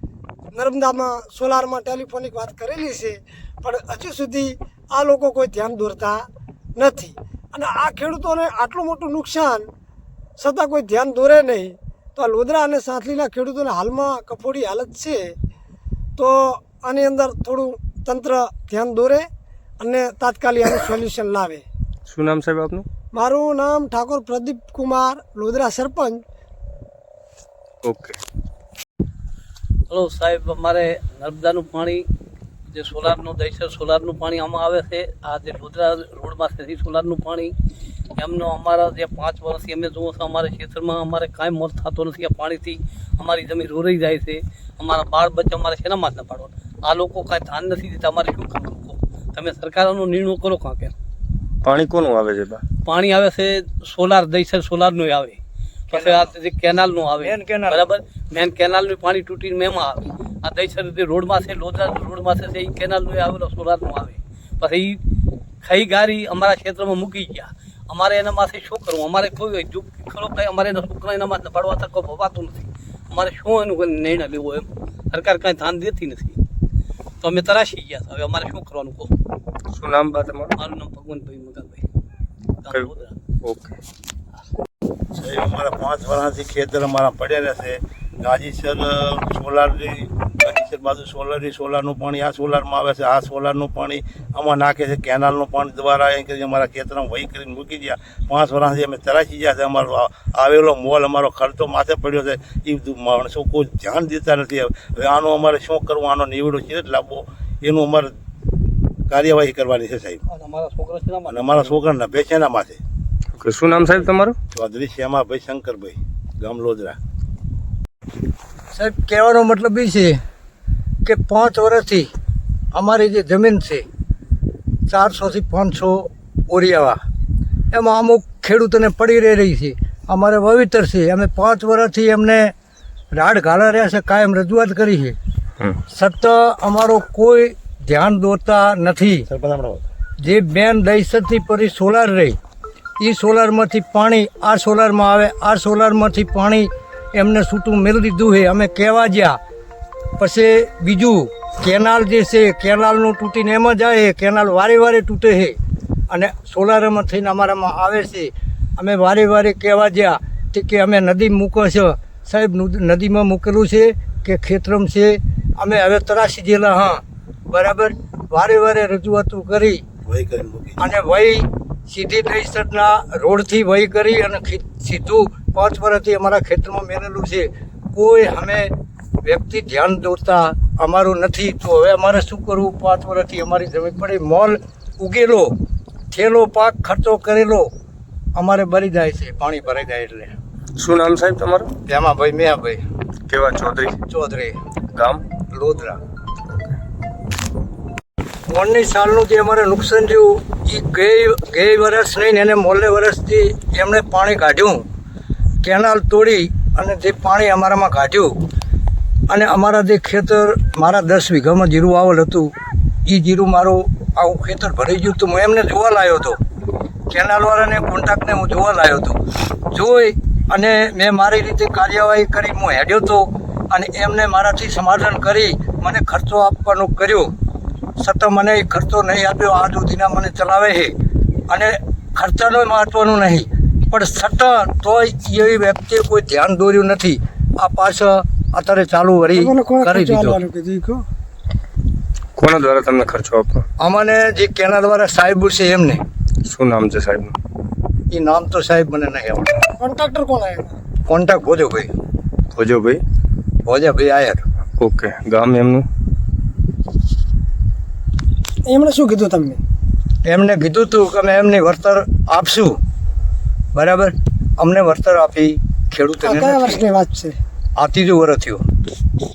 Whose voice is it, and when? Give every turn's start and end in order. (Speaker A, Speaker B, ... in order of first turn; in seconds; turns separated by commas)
Speaker A: 0.5-6.2, Speaker A: 6.8-9.7, Speaker A: 10.4-15.3, Speaker A: 16.2-19.3, Speaker A: 19.8-21.6, Speaker B: 22.1-22.9, Speaker A: 23.1-26.2, Speaker B: 27.8-28.2, Speaker C: 29.9-32.0, Speaker C: 32.7-37.5, Speaker C: 38.2-50.9, Speaker B: 51.6-52.6, Speaker C: 52.8-65.0, Speaker D: 55.9-56.3, Speaker D: 57.2-57.9, Speaker C: 65.6-76.4, Speaker C: 77.2-79.1, Speaker B: 79.7-80.6, Speaker C: 80.6-81.8, Speaker C: 82.6-83.2, Speaker B: 83.4-83.8, Speaker E: 85.2-108.2, Speaker E: 109.1-110.2, Speaker C: 110.3-111.8, Speaker E: 111.3-112.8, Speaker B: 113.4-114.4, Speaker E: 114.5-117.0, Speaker D: 118.7-120.2, Speaker D: 121.0-122.1, Speaker D: 122.7-123.9, Speaker D: 124.9-127.0, Speaker D: 127.7-132.5, Speaker D: 133.2-135.2, Speaker D: 135.9-139.3, Speaker E: 139.3-139.9, Speaker D: 140.2-142.4, Speaker D: 143.0-149.4, Speaker D: 150.2-155.6, Speaker D: 156.1-169.8, Speaker E: 170.1-170.8, Speaker D: 170.8-185.6, Speaker D: 186.1-187.7, Speaker D: 188.4-190.4, Speaker B: 190.8-191.7, Speaker D: 191.9-192.8, Speaker B: 193.3-194.0, Speaker D: 194.0-194.6, Speaker B: 194.9-195.3, Speaker D: 195.4-196.0, Speaker D: 198.5-204.8, Speaker D: 205.6-208.3, Speaker D: 209.3-212.5, Speaker D: 213.1-216.4, Speaker D: 217.1-219.2, Speaker D: 219.7-227.3, Speaker D: 228.0-230.9, Speaker D: 231.5-240.4, Speaker A: 239.3-241.0, Speaker B: 242.4-243.7, Speaker D: 243.8-246.0, Speaker B: 246.4-247.4, Speaker D: 248.1-249.6, Speaker A: 249.8-250.7, Speaker D: 251.1-251.9, Speaker B: 252.5-253.0, Speaker D: 253.7-254.4, Speaker B: 254.8-255.9, Speaker A: 258.7-259.6, Speaker D: 260.2-262.8, Speaker D: 263.7-266.8, Speaker A: 266.2-267.4, Speaker D: 267.8-268.6